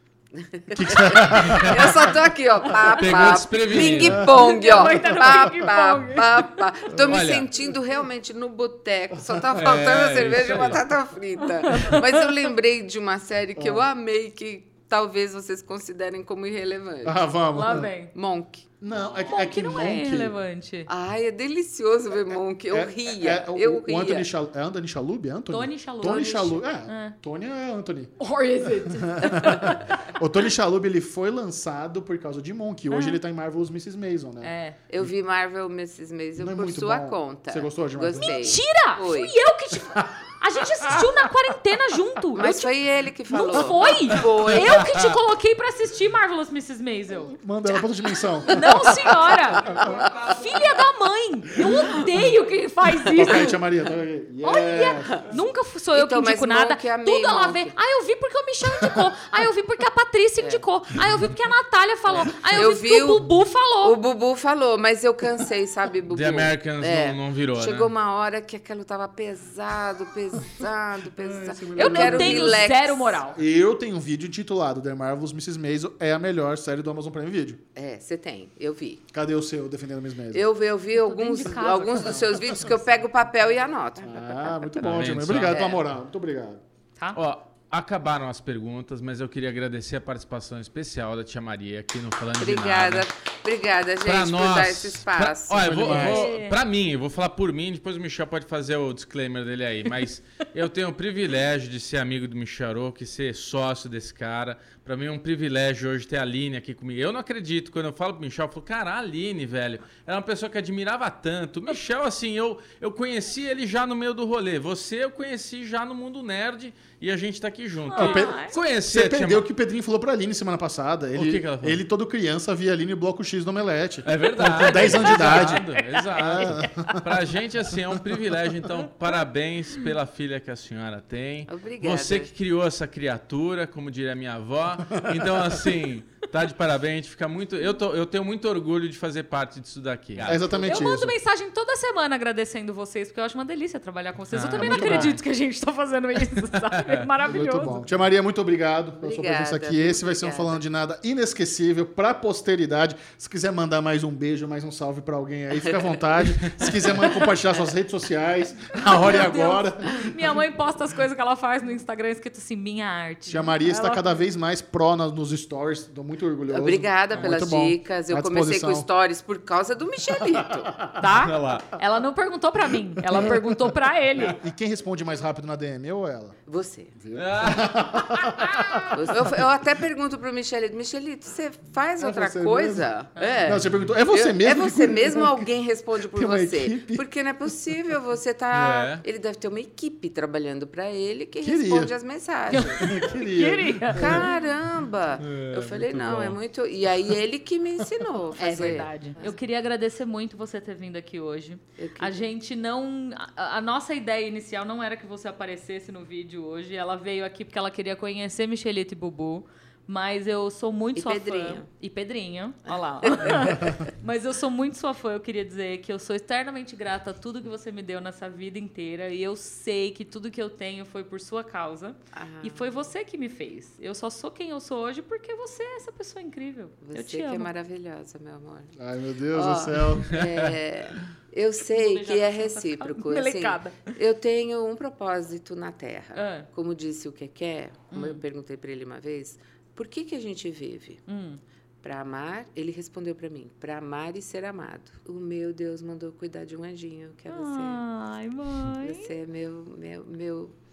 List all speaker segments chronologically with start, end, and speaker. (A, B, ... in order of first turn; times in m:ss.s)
0:00.4-0:17.2 A
0:00.7-0:02.2 B
0:01.4-0:02.0 C
0:02.8-0:04.3 C
0:04.2-0:06.5 D
0:07.1-0:07.5 C
0:09.5-0:10.8 C
0:11.4-0:12.3 D
0:13.6-0:13.8 B
0:17.0-0:17.9 B
0:17.6-0:18.1 D
0:18.1-0:18.7 A
0:18.8-0:20.3 B
0:19.2-0:20.9 D
0:20.9-0:24.3 A
0:22.7-0:35.1 B
0:25.5-0:27.2 D
0:28.2-0:30.0 D
0:32.9-0:33.2 D
0:34.4-0:34.8 D
0:34.9-0:39.4 A
0:36.4-0:38.5 B
0:38.2-0:42.7 D
0:42.4-0:44.8 A
0:43.3-0:47.9 D
0:44.8-0:45.1 C
0:47.4-0:50.2 B
0:48.4-0:53.6 D
0:53.1-0:55.4 B
0:54.4-1:04.0 D
0:55.9-0:57.7 A
1:02.3-1:03.2 A
1:03.8-1:13.2 A
1:06.1-1:07.9 C
1:11.2-1:12.7 B
1:11.8-1:13.4 D
1:13.3-1:17.6 B
1:17.8-1:19.0 A
1:19.1-1:20.4 B
1:20.3-1:25.8 A
1:20.9-1:22.9 D
1:24.0-1:26.6 B
1:24.8-1:25.6 C
1:27.2-1:33.1 C
1:32.4-1:35.9 A
1:34.0-1:59.4 C
1:35.5-1:36.3 B
1:35.9-1:36.6 D
1:57.9-1:58.6 D
1:58.0-2:07.2 B
2:01.2-2:01.8 C
2:04.0-2:20.5 C
2:04.4-2:06.9 D
2:11.5-2:12.3 A
2:15.0-2:15.3 B
2:20.2-2:21.2 B
2:20.6-2:27.8 D
2:24.3-2:25.2 C
2:24.5-2:25.2 B
2:26.4-2:27.1 C
2:27.2-2:40.4 B
2:29.0-2:30.6 A
2:35.6-2:36.0 A
2:38.7-2:44.0 D
2:43.3-2:48.9 B
2:46.5-2:50.8 A
2:50.3-2:51.0 B
2:51.0-2:54.4 D
2:51.1-2:51.7 C
2:53.1-2:53.6 B
2:54.3-2:56.4 B
2:56.5-2:56.9 A
2:57.0-2:59.3 B
2:57.1-2:58.8 C
2:58.9-3:12.9 A
3:02.0-3:02.9 B
3:03.4-3:05.5 B
3:06.1-3:07.0 B
3:08.5-3:09.0 C
3:11.4-3:11.9 B
3:12.5-3:14.4 D
3:12.7-3:14.3 B
3:13.9-3:19.4 A
3:15.2-3:16.4 C
3:18.4-3:47.5 D
3:21.8-3:22.2 A
3:31.0-3:31.7 A
3:33.0-3:33.3 A
3:42.1-3:42.8 A
3:46.8-3:48.8 A
3:48.8-3:50.2 B
3:49.3-4:01.0 A
3:50.1-3:50.5 C
3:51.7-3:54.0 D
3:56.2-3:56.5 D
3:57.9-3:58.2 D
4:01.1-4:01.4 D
4:01.8-4:07.8 A
4:07.3-4:09.1 D
4:08.8-4:10.6 A